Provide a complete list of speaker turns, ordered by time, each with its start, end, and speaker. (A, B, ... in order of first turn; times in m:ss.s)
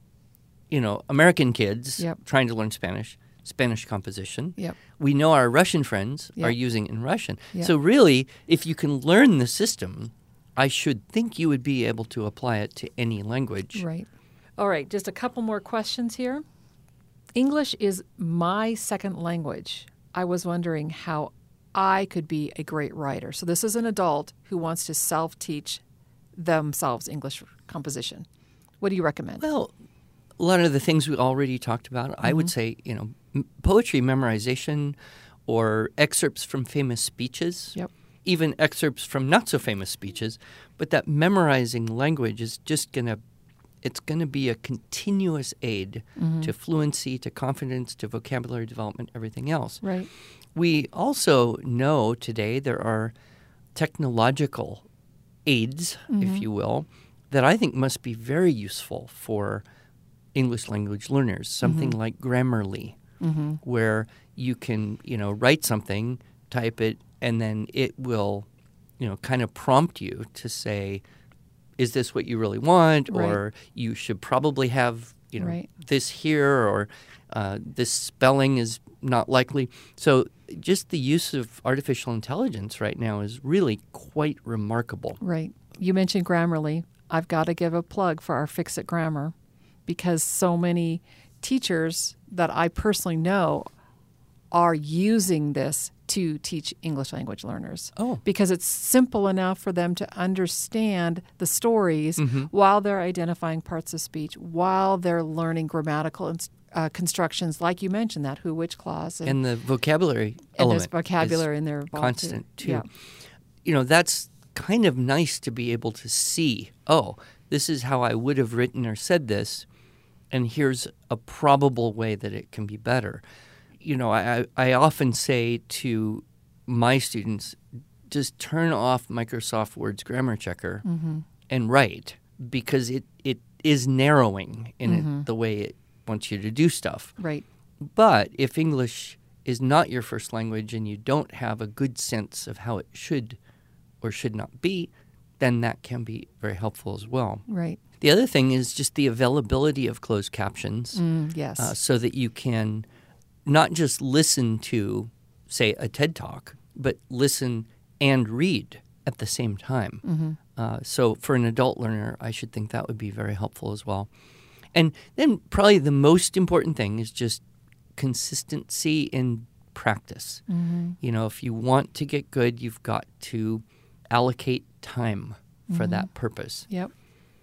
0:00.7-0:13.8 A
0:13.8-0:16.4 B
0:17.4-0:25.8 B
0:26.4-0:28.3 B
0:28.8-0:29.4 B
0:29.4-0:29.7 A
0:30.4-0:43.2 A
0:32.2-0:32.5 B
0:43.8-0:49.8 A
0:46.2-0:46.5 B
0:49.8-0:50.1 B
0:50.6-0:53.1 A
0:53.8-0:54.9 A
0:55.5-0:59.6 A
0:56.1-0:56.4 B
1:00.4-1:03.0 A
1:01.6-1:02.0 B
1:03.2-1:03.6 B
1:03.6-1:08.5 A
1:09.0-1:11.0 A
1:11.8-1:25.2 A
1:13.1-1:13.4 B
1:15.4-1:15.7 B
1:25.2-1:29.3 B
1:29.9-1:33.7 B
1:34.5-1:49.4 B
1:38.0-1:38.2 A
1:42.2-1:42.5 A
1:49.2-1:52.9 A
1:50.6-1:52.9 B
1:53.6-1:59.7 A
2:00.3-2:03.2 A
2:03.8-2:10.8 A
2:10.8-2:11.2 B
2:11.5-2:17.2 A
2:14.8-2:15.3 B
2:17.2-2:17.4 B
2:17.8-2:23.4 A
2:24.0-2:27.4 A
2:27.5-2:27.8 B
2:28.0-2:31.0 A
2:31.0-2:31.7 B
2:31.6-2:32.9 A
2:33.5-2:40.0 A
2:40.0-2:40.4 B
2:40.6-2:44.1 A
2:44.8-2:47.4 A
2:48.0-2:50.4 A
2:50.5-2:51.0 B
2:51.0-2:56.7 A
2:55.7-2:56.1 B